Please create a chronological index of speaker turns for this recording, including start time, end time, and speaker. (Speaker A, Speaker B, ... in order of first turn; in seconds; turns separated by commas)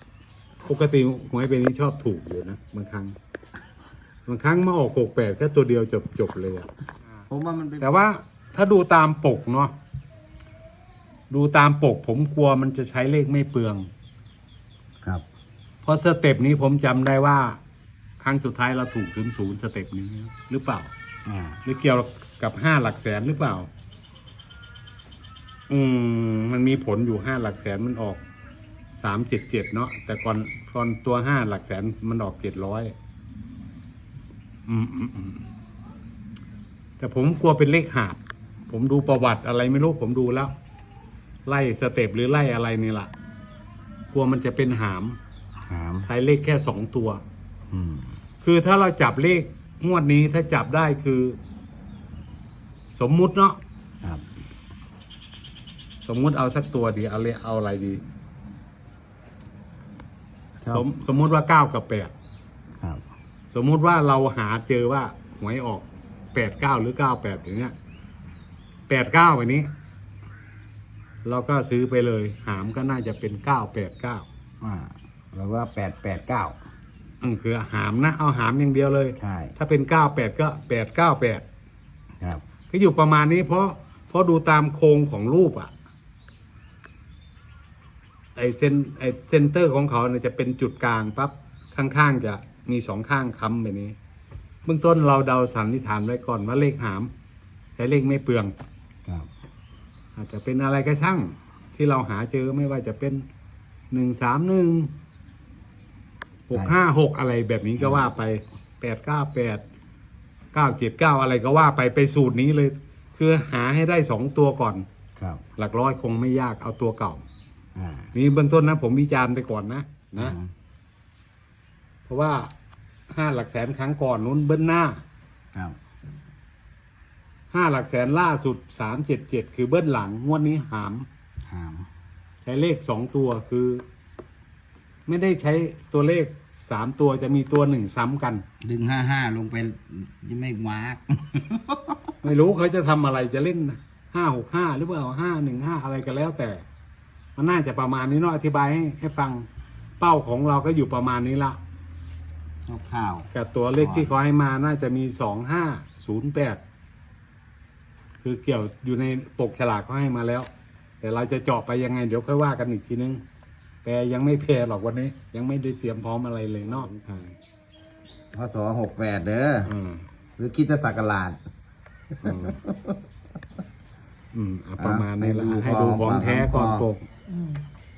Speaker A: 0.6-3.1, Speaker A: 4.2-7.2, Speaker B: 7.3-7.9, Speaker A: 7.8-9.7, Speaker A: 11.3-13.9, Speaker A: 15.8-17.6, Speaker A: 18.2-20.9, Speaker B: 21.2-21.6, Speaker A: 21.6-23.7, Speaker A: 25.7-28.2, Speaker A: 29.0-32.9, Speaker A: 34.7-35.5, Speaker A: 37.0-40.5, Speaker A: 41.5-43.1, Speaker A: 44.1-45.2, Speaker B: 45.6-46.1, Speaker A: 46.0-47.2, Speaker B: 47.7-48.1, Speaker A: 48.4-51.4, Speaker A: 52.9-53.6, Speaker A: 56.0-58.0, Speaker A: 60.6-62.1, Speaker A: 63.5-67.7, Speaker A: 68.9-69.7, Speaker A: 71.2-74.3, Speaker B: 74.6-76.6, Speaker A: 77.2-81.4, Speaker B: 79.2-79.5, Speaker A: 82.7-85.7, Speaker A: 88.3-94.0, Speaker A: 94.6-97.1, Speaker A: 97.8-98.5, Speaker A: 100.2-103.2, Speaker A: 103.9-104.9, Speaker A: 106.5-109.6, Speaker B: 106.5-106.8, Speaker B: 107.8-108.1, Speaker A: 110.5-114.8, Speaker B: 115.2-115.4, Speaker A: 115.6-117.2, Speaker B: 117.8-118.1, Speaker A: 118.1-120.4, Speaker B: 120.2-120.5, Speaker A: 122.1-122.5, Speaker A: 123.1-125.0, Speaker A: 127.5-131.1, Speaker B: 131.5-131.9, Speaker A: 132.4-133.8, Speaker A: 135.1-138.4, Speaker B: 138.6-142.1, Speaker A: 142.2-146.7, Speaker A: 147.3-149.5, Speaker A: 150.0-151.6, Speaker B: 152.7-154.1, Speaker A: 153.3-156.6, Speaker A: 158.2-160.5, Speaker A: 161.0-163.2, Speaker A: 163.8-167.3, Speaker B: 168.3-169.7, Speaker A: 169.7-170.0, Speaker B: 170.4-171.4, Speaker B: 172.2-172.9, Speaker A: 172.2-172.6, Speaker A: 174.3-177.1, Speaker B: 174.8-176.8